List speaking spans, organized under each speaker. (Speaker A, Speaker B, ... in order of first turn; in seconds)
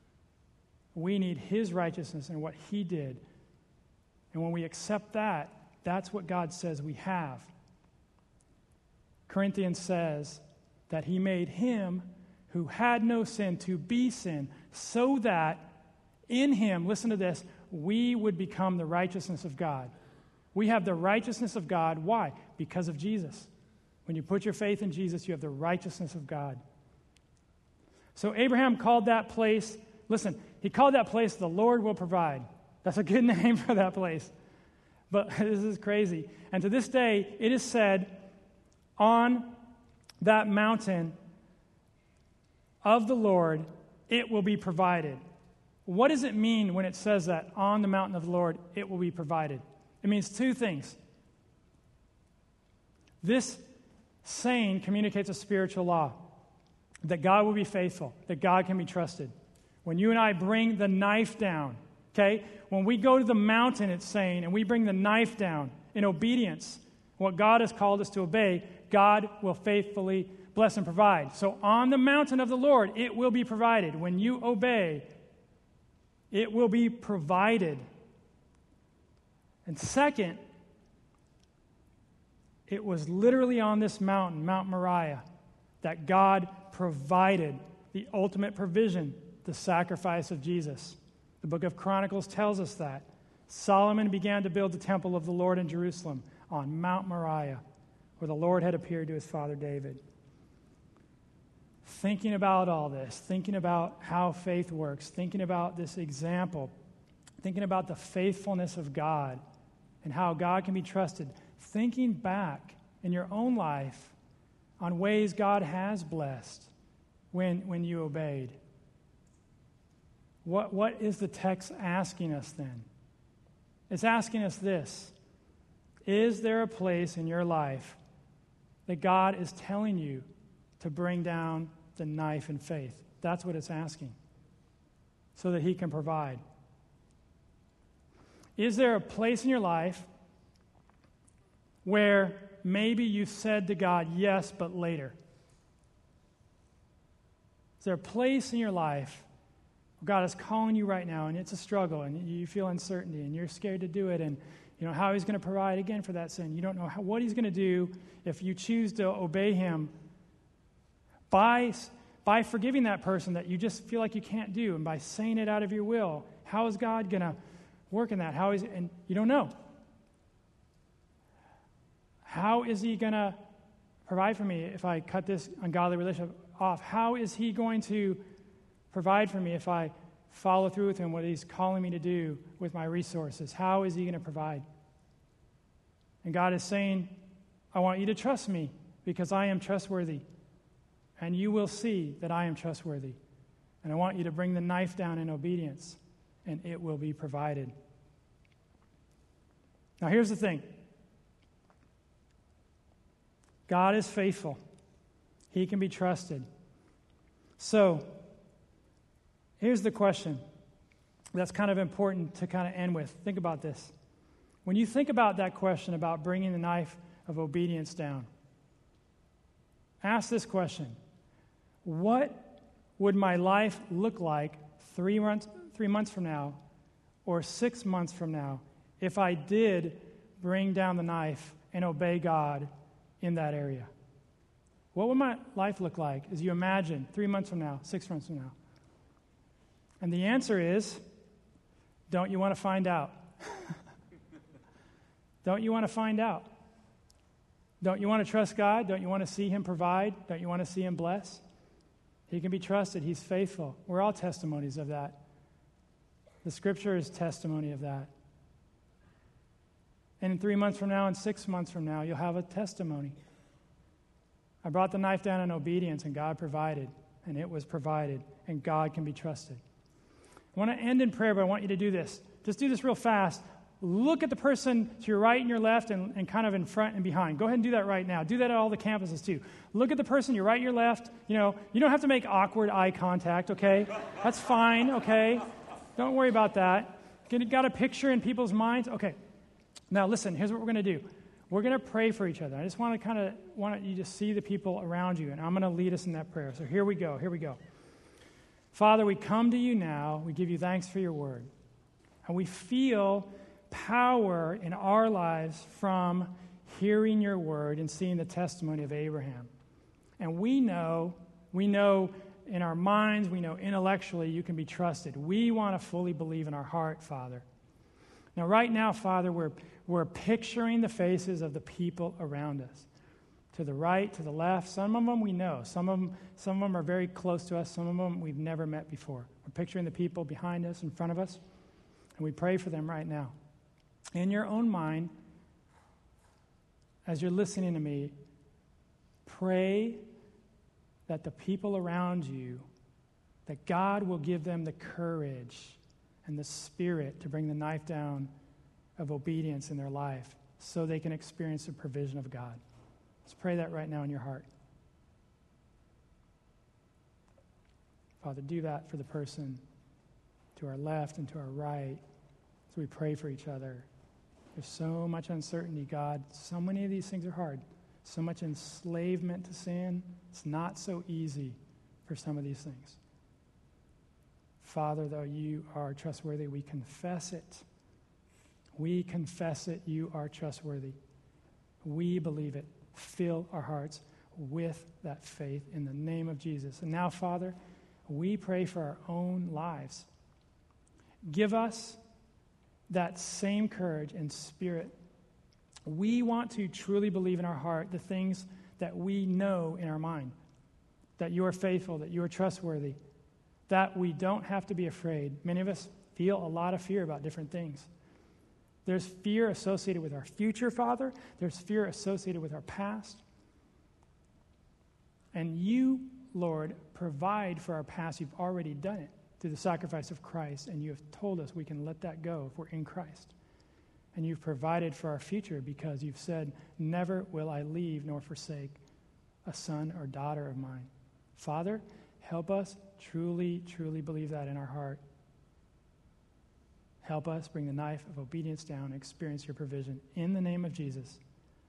Speaker A: 0.9-3.2, 4.3-7.5, 9.3-15.7, 16.3-19.9, 20.5-23.5, 24.1-26.6, 28.1-34.3, 35.1-38.3, 39.0-39.6, 40.2-41.2, 42.8-45.2, 45.9-51.0, 53.2-53.6, 54.2-56.3, 57.0-59.3, 59.9-75.1, 76.3-77.9, 79.7-80.4, 82.7-85.2, 85.8-97.6, 98.2-100.0, 101.8-106.7, 107.4-109.4, 110.0-114.2, 114.8-116.7, 117.3-118.6, 120.5-122.9, 123.9-125.2, 126.1-128.0, 128.9-130.3, 130.8-134.2, 135.4-136.4, 138.6-140.1, 141.8-145.2, 147.8-149.3, 150.0-159.9, 161.3-167.4, 167.9-169.5, 172.2-173.4, 174.1-178.2, 178.9-184.7, 186.2-187.2, 187.7-190.2, 191.2-193.2, 193.8-197.7, 200.0-200.7, 203.7-204.6, 205.5-206.5, 207.6-208.2, 209.6-210.4, 211.3-213.9, 214.7-218.3, 220.0-221.0, 221.8-226.6, 227.2-233.9, 234.9-238.6, 240.0-241.0, 242.1-243.8, 245.4-246.5, 247.8-251.4, 252.3-255.2, 256.4-258.1, 260.2-263.2, 264.6-269.6, 270.6-285.4, 286.0-289.2, 289.9-297.6, 298.7-301.5, 302.2-309.5, 310.2-317.4, 318.4-322.9, 323.5-331.4, 332.2-333.3, 334.1-335.1, 337.1-338.1, 339.3-340.1, 341.1-342.7, 343.5-348.3, 349.0-352.6, 353.3-354.5, 358.2-359.6, 360.6-362.0, 362.7-363.9, 364.6-373.0, 374.6-377.6, 378.8-381.0, 381.8-387.6, 388.1-390.1, 391.3-392.0, 392.9-394.9, 395.9-400.3, 401.2-403.0, 403.7-407.9, 408.9-413.2, 415.3-423.3, 424.1-428.8, 429.5-435.0, 437.0-441.2